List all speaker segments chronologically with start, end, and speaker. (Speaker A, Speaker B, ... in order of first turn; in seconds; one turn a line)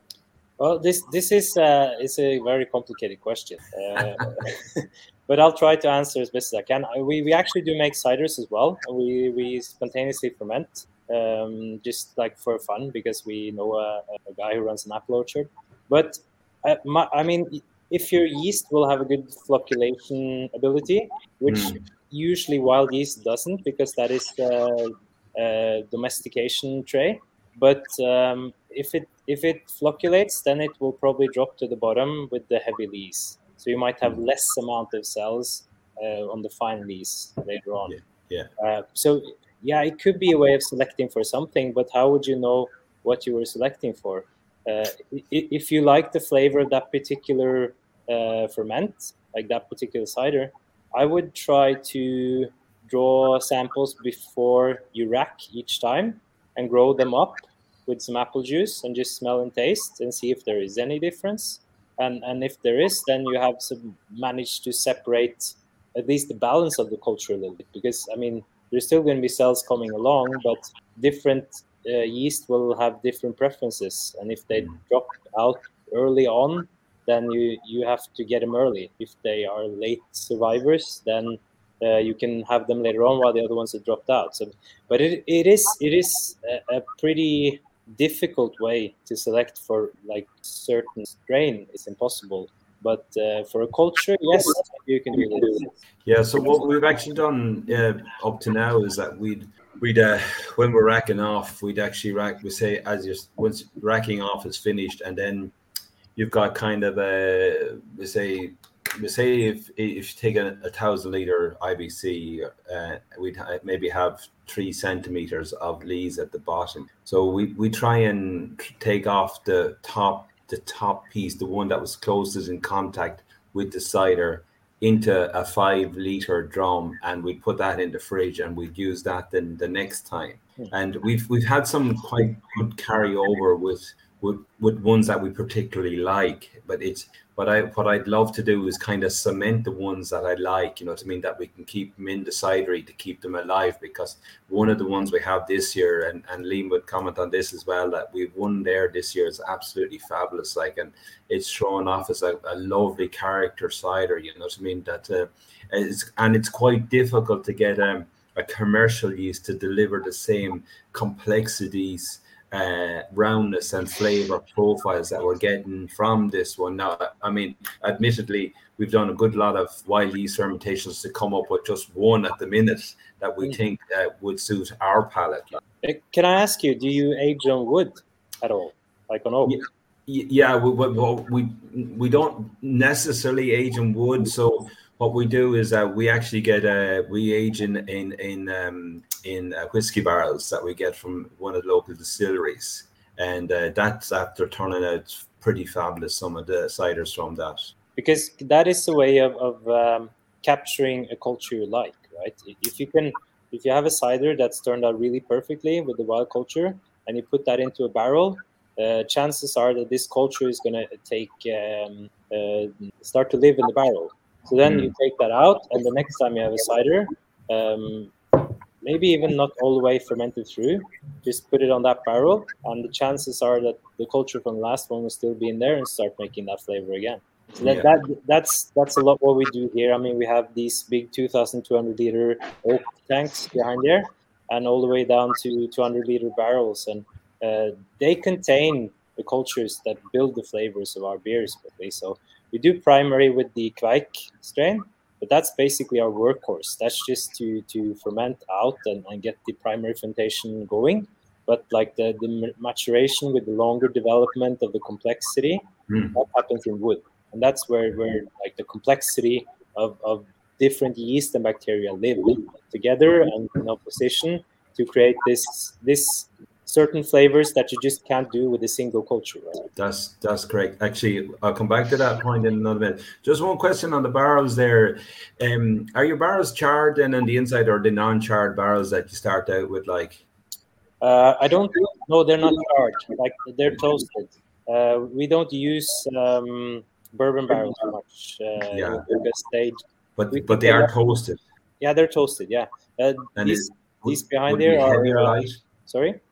Speaker A: 0.6-37.9
Speaker B: 21.5-21.8
Speaker B: 37.9-38.5
Speaker A: 38.6-95.7
Speaker B: 96.0-105.5
Speaker B: 106.2-175.6
Speaker A: 175.8-179.6
Speaker B: 179.5-197.7
Speaker A: 197.9-269.6
Speaker B: 214.6-214.9
Speaker B: 227.6-227.9
Speaker B: 269.8-280.2
Speaker A: 281.0-290.9
Speaker B: 288.7-289.1
Speaker B: 290.2-291.4
Speaker A: 291.8-296.2
Speaker B: 293.4-295.6